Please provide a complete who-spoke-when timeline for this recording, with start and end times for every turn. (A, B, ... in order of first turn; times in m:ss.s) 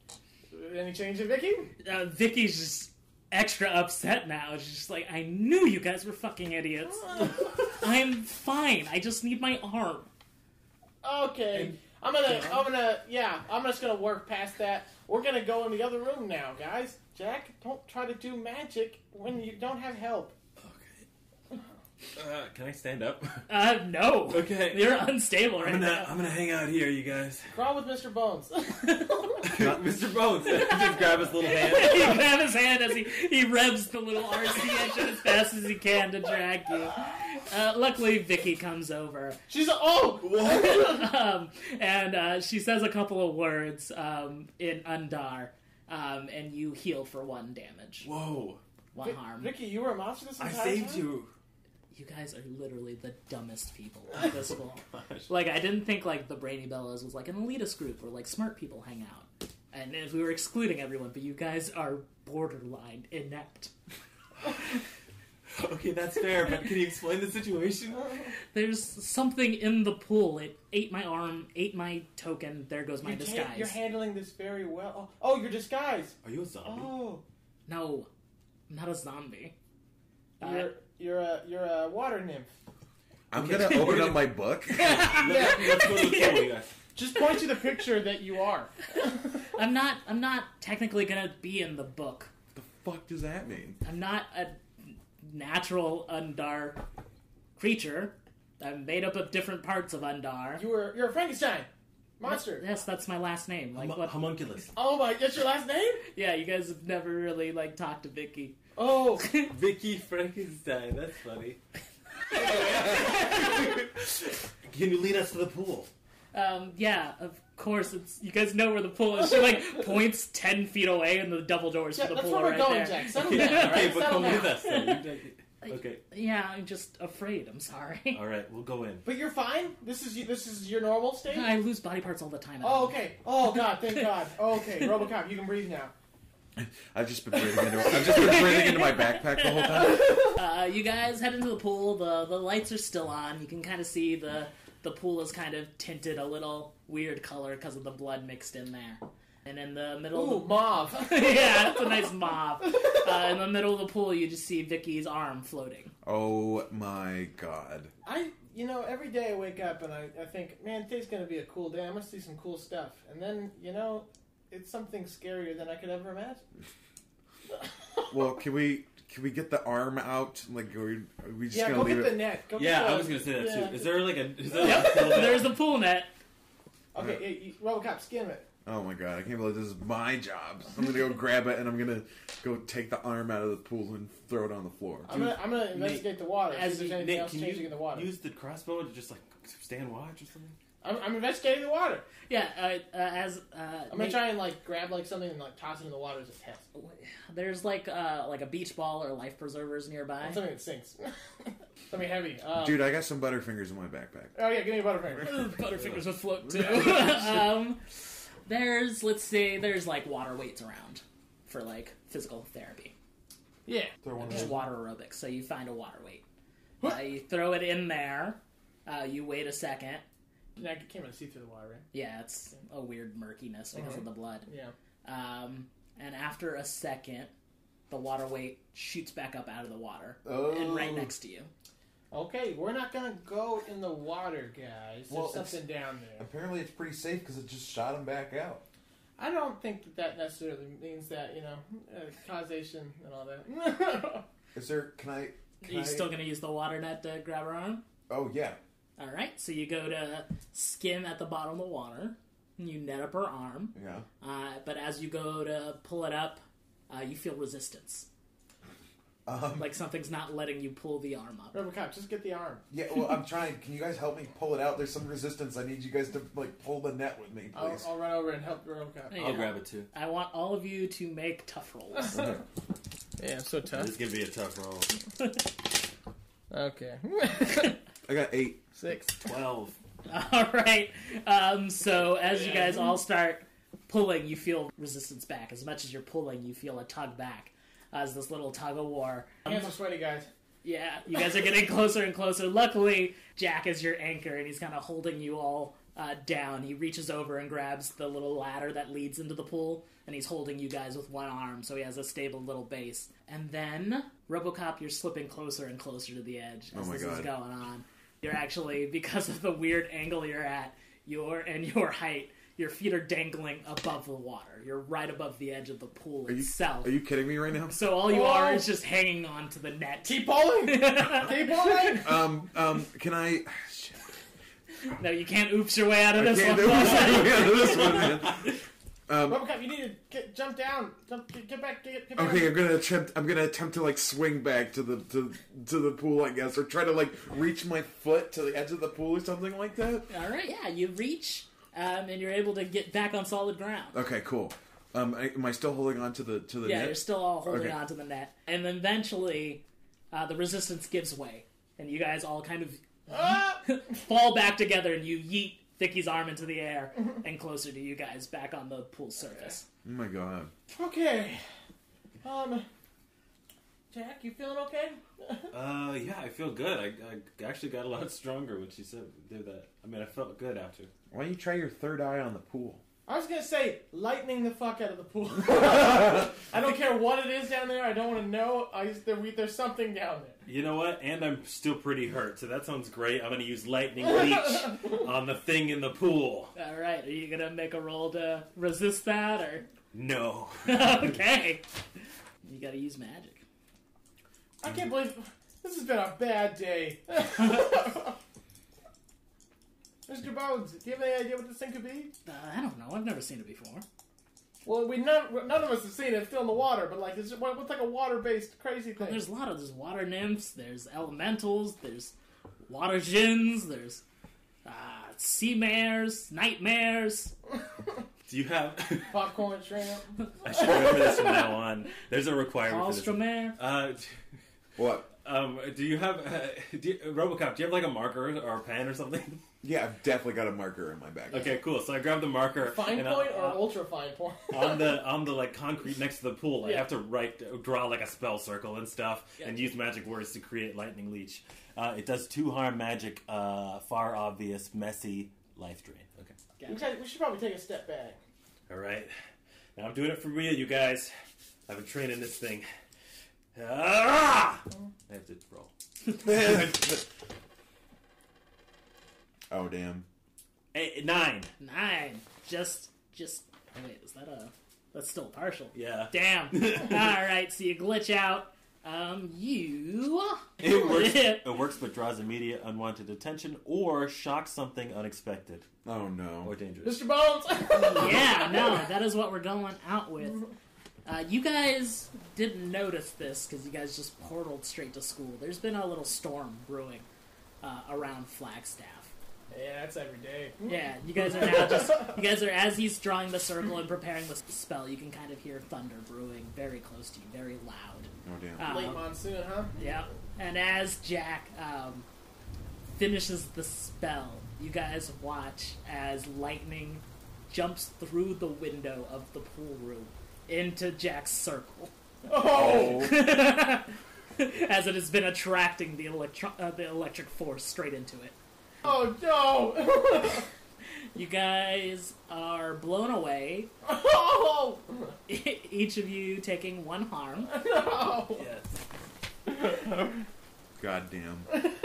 0:00.5-0:01.7 A
0:01.8-0:10.1 B
0:11.0-0:20.3 A
0:20.6-0:21.0 C
0:22.2-0:23.6 C
0:23.5-0:26.1 B
0:24.3-0:27.5 C
0:27.5-0:29.4 A
0:28.8-0:29.3 B
0:29.4-0:32.2 C
0:30.4-0:39.4 B
0:39.5-0:41.1 A
0:40.3-0:40.6 C
0:40.4-0:48.1 B
0:48.0-0:48.6 C
0:48.9-0:49.5 B
0:49.0-0:51.1 A
0:50.4-0:51.3 C
0:51.9-1:03.7 B
0:54.9-0:55.3 C
1:05.5-1:08.2 C
1:08.5-1:13.8 B
1:13.0-1:17.2 A
1:16.2-1:17.0 C
1:17.7-1:18.1 B
1:18.7-1:19.5 B
1:20.4-1:22.5 A
1:20.4-1:20.7 B
1:23.3-1:25.1 D
1:23.3-1:26.7 C
1:24.7-1:26.5 B
1:25.3-1:25.9 A
1:26.9-1:29.2 A
1:29.5-1:32.3 B
1:32.5-1:33.8 D
1:33.8-1:36.8 B
1:37.6-1:40.6 B
1:40.6-1:42.6 A
1:42.2-1:44.2 B
1:43.8-1:44.7 C
1:44.7-1:46.0 A
1:46.1-1:48.6 B
1:48.8-1:49.3 A
1:49.2-1:49.5 B
1:49.4-1:51.6 C
1:52.3-1:55.9 C
1:56.3-2:05.0 B
2:01.9-2:04.6 A
2:03.1-2:06.0 C
2:05.7-2:08.2 B
2:08.1-2:09.0 C
2:09.0-2:11.6 A
2:11.3-2:13.0 B
2:12.6-2:15.9 A
2:16.6-2:20.3 D
2:17.8-2:35.9 B
2:30.1-2:31.7 A
2:36.0-2:37.9 D
2:38.0-2:46.4 A
2:48.1-2:52.2 D
2:51.5-2:55.4 A
2:52.5-2:55.5 C
2:54.6-2:56.1 B
2:56.9-2:58.5 A
2:57.0-2:57.2 D
2:58.6-3:05.1 D
3:05.0-3:08.1 A
3:05.1-3:06.1 C
3:06.5-3:07.0 B
3:06.8-3:10.6 C
3:10.8-3:12.0 A
3:12.3-3:14.3 B
3:13.9-3:16.6 A
3:16.7-3:20.4 B
3:20.2-3:22.9 A
3:22.5-3:24.4 D
3:24.3-3:25.6 A
3:25.2-3:27.8 B
3:26.5-3:27.2 D
3:26.6-3:27.3 A
3:28.4-3:32.9 B
3:33.6-3:34.5 A
3:34.0-3:34.6 D
3:34.2-3:36.2 B
3:36.8-3:40.0 B
3:40.6-3:41.9 A
3:41.9-3:44.5 B
3:43.7-3:44.7 A
3:45.0-3:47.3 B
3:47.9-3:51.5 B
3:50.2-3:51.1 D
3:52.1-3:56.3 A
3:55.1-3:55.6 D
3:56.2-3:58.6 D
3:59.2-4:04.2 A
4:04.5-4:06.1 D
4:05.6-4:07.8 B
4:08.1-4:08.6 D
4:09.0-4:18.1 B
4:13.7-4:14.0 D
4:19.2-4:19.7 D
4:19.5-4:21.6 B
4:21.5-4:22.6 A
4:22.7-4:27.8 D
4:27.5-4:29.4 A
4:29.1-4:32.2 B
4:29.1-4:29.9 C
4:32.1-4:32.4 D
4:33.2-4:33.9 A
4:33.7-4:35.0 C
4:36.5-4:37.8 A
4:38.0-4:38.6 D
4:38.8-4:39.2 A
4:39.2-4:39.8 C
4:40.1-4:49.7 B
4:42.2-4:43.0 A
4:49.4-4:50.3 A
4:50.6-5:17.0 B
5:06.7-5:07.3 D
5:16.3-5:17.8 D
5:17.7-5:21.6 B
5:18.0-5:18.7 A
5:20.0-5:22.1 A
5:21.8-5:24.1 D
5:25.0-5:28.1 B
5:26.1-5:29.5 D
5:29.3-5:32.5 A
5:32.2-5:40.1 D
5:40.1-5:44.0 B
5:43.9-5:47.8 D
5:46.6-5:59.6 B
5:53.1-5:53.6 A
5:59.8-6:00.5 D
6:00.7-6:01.4 A
6:02.2-6:02.6 A
6:03.9-6:05.5 A
6:05.5-6:10.9 C
6:11.1-6:12.8 D
6:13.0-6:20.4 A
6:20.4-6:26.5 C
6:26.5-6:29.6 B
6:29.9-6:31.1 C
6:30.6-6:31.6 B
6:32.4-6:33.4 B
6:34.6-6:38.2 A
6:40.1-6:42.1 A
6:42.2-6:43.8 B
6:44.6-6:49.2 A
6:49.0-6:52.1 B
6:52.6-6:54.0 B
6:54.6-6:57.3 B
6:58.3-6:59.2 C
6:59.1-7:01.5 A
7:00.4-7:04.1 C
7:02.6-7:03.6 B
7:04.8-7:05.1 D
7:05.0-7:09.4 C
7:09.6-7:11.5 D
7:11.3-7:13.6 C
7:12.6-7:15.0 A
7:14.5-7:26.4 C
7:16.6-7:16.9 B
7:26.6-7:26.8 B
7:26.6-7:28.2 A
7:28.7-7:29.1 C
7:29.8-7:31.1 C
7:31.7-7:32.7 C
7:33.5-7:35.7 C
7:36.2-7:37.1 D
7:39.5-7:40.0 D
7:40.7-7:41.5 C
7:41.6-7:51.5 B
7:45.7-7:47.0 C
7:50.6-7:55.7 C
7:55.8-7:56.5 D
7:56.4-7:57.1 C
7:56.8-7:58.8 A
7:57.7-8:00.4 B
8:01.0-8:07.0 B
8:07.6-8:09.1 B
8:09.5-8:10.7 A
8:10.6-8:19.0 B
8:11.3-8:12.0 A
8:18.2-8:18.7 D
8:18.6-8:19.7 A
8:19.8-8:22.0 B
8:22.9-8:31.9 B
8:32.2-8:33.1 A
8:32.4-8:33.3 D
8:32.5-8:38.3 B
8:38.8-8:40.5 A
8:41.1-8:43.7 B
8:43.8-8:45.1 A
8:45.3-8:47.5 B
8:47.4-8:48.4 A
8:48.3-8:48.8 C
8:49.5-8:49.8 A
8:50.8-8:51.5 D